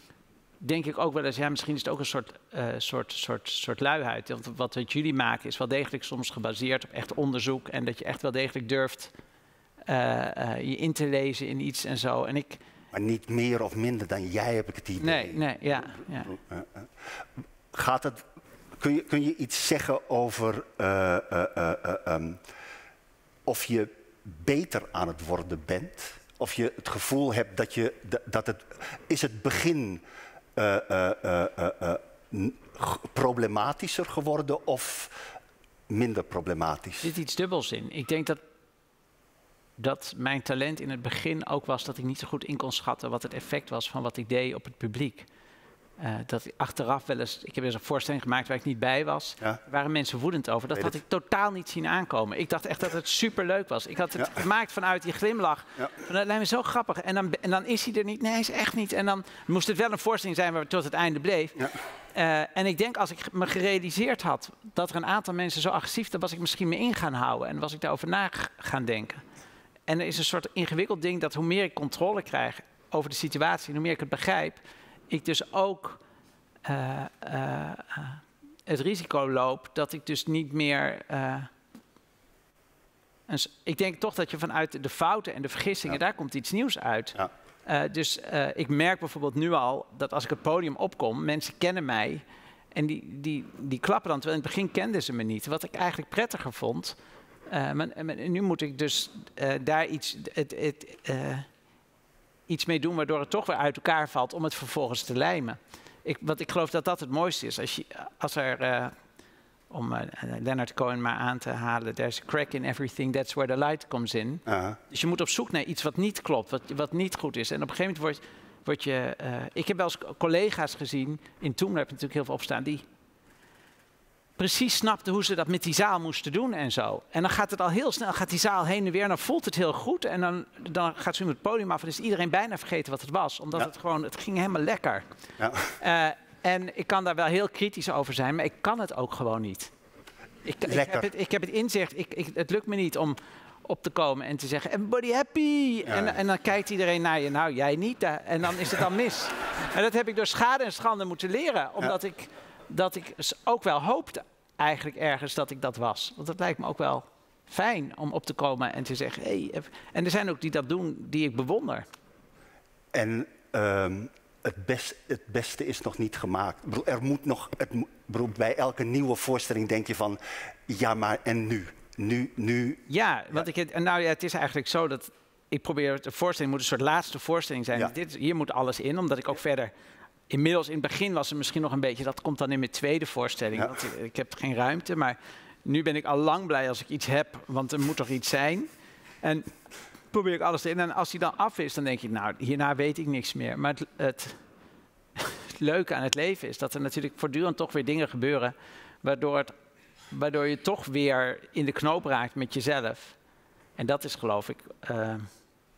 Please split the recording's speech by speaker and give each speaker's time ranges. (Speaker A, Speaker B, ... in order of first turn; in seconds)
Speaker A: 0.6-9.1, 9.9-12.6, 15.0-16.4, 37.0-38.4, 39.8-45.3, 46.0-69.2, 69.9-76.0, 76.6-81.5, 83.3-97.0, 97.5-101.5, 102.5-108.9, 109.7-122.8, 124.4-135.0, 135.8-139.7, 140.4-161.8, 172.9-179.7, 180.3-188.7, 189.2-189.5, 190.1-194.4, 195.2-199.5, 200.1-203.2, 203.8-205.3
Speaker B: 12.9-16.9, 17.7-18.2, 18.8-22.4, 23.5-30.0, 30.6-35.1, 35.9-37.1, 114.5-114.8, 135.4-135.8, 140.6-141.1, 145.9-146.2, 162.9-173.4, 183.5-183.8